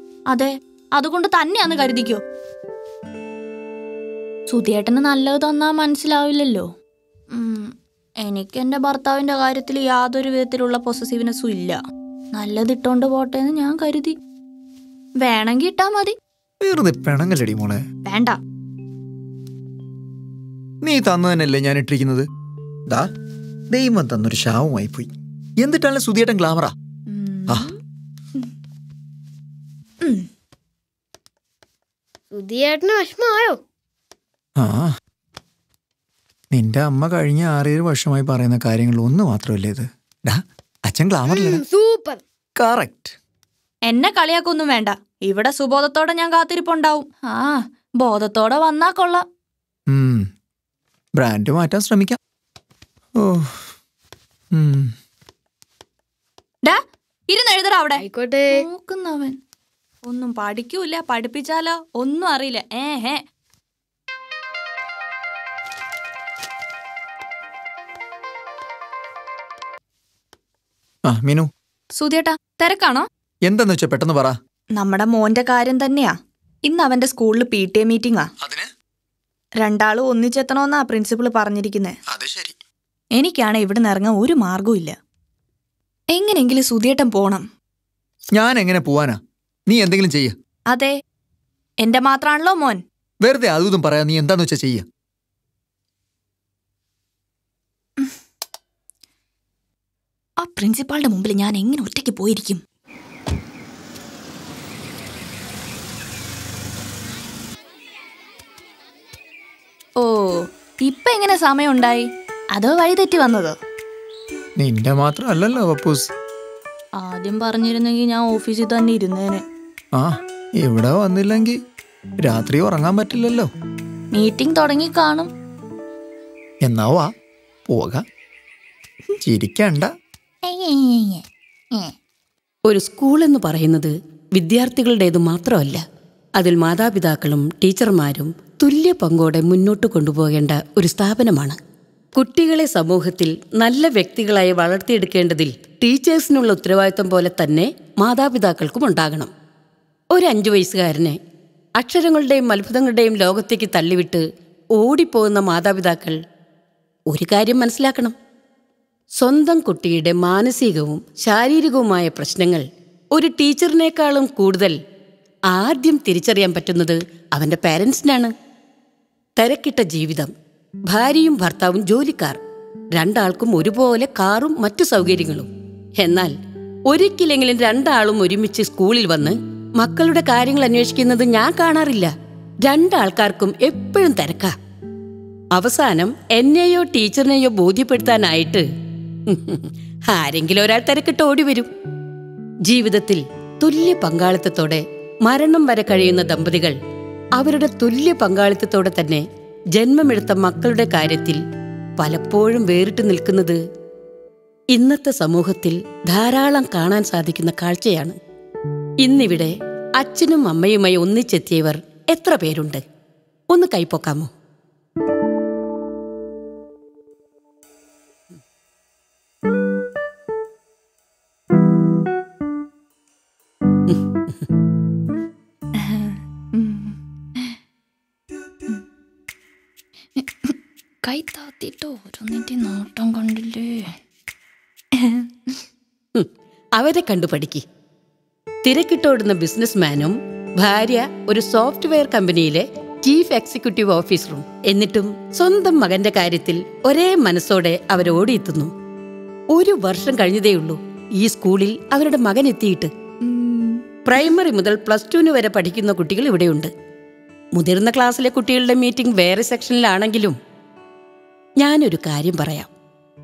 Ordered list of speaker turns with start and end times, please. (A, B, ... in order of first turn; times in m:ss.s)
0:00.3-0:02.2 A
0:04.5-0:06.7 A
0:07.3-0:11.8 A
0:12.3-0:14.2 A
0:15.2-0:16.1 A
0:16.6-0:17.8 B
0:18.0-0:18.4 A
0:20.8-0:22.2 B
0:23.7-0:26.7 B
0:27.1-0:27.8 A
0:30.0-0:30.3 A
0:32.3-0:33.6 C
0:34.6-0:34.9 B
0:36.5-0:41.6 B
0:41.3-0:42.2 C
0:42.6-0:43.1 B
0:43.8-0:49.2 A
0:49.9-0:50.3 B
0:51.2-0:52.2 B
0:53.2-0:53.7 B
0:54.5-0:54.9 B
0:56.6-0:58.0 A
0:58.0-0:58.6 C
0:58.5-0:59.4 A
1:00.0-1:03.2 A
1:11.1-1:11.5 B
1:11.9-1:13.0 A
1:13.4-1:14.4 B
1:14.8-1:18.3 A
1:18.4-1:18.7 B
1:19.6-1:21.9 A
1:22.1-1:22.6 B
1:23.2-1:24.9 A
1:26.1-1:27.5 A
1:28.3-1:30.3 B
1:31.8-1:32.8 A
1:33.2-1:34.8 B
1:40.4-1:42.6 A
1:50.0-1:53.6 A
1:54.6-1:56.1 B
1:57.0-1:59.4 A
1:59.9-2:01.6 B
2:02.2-2:03.5 B
2:04.1-2:05.3 A
2:06.6-2:07.1 B
2:07.7-2:08.0 B
2:09.2-2:09.9 B
2:12.7-2:15.8 D
2:16.4-2:21.6 D
2:22.2-2:29.3 D
2:30.1-2:31.2 D
2:31.8-2:34.2 D
2:34.8-2:36.2 D
2:37.1-2:38.1 D
2:39.2-2:42.6 D
2:43.1-2:44.8 D
2:45.5-2:48.3 D
2:49.4-2:50.3 D
2:50.9-2:52.4 D
2:52.9-2:55.5 D
2:56.0-2:56.3 D
2:56.9-3:02.1 D
3:02.6-3:04.5 D
3:05.5-3:08.6 D
3:09.3-3:11.7 D
3:12.7-3:16.7 D
3:17.4-3:19.2 D
3:19.8-3:21.4 D
3:22.0-3:23.6 D
3:24.7-3:28.1 D
3:29.0-3:32.8 D
3:33.5-3:34.3 D
3:43.9-3:44.4 D
3:45.8-3:47.6 A
3:50.2-3:54.0 A
3:54.9-3:55.6 A
3:56.2-3:57.6 D
3:58.6-4:08.7 D
4:09.5-4:12.9 D
4:13.2-4:13.8 A
4:14.0-4:16.7 D
4:17.5-4:20.4 D
4:21.6-4:22.7 D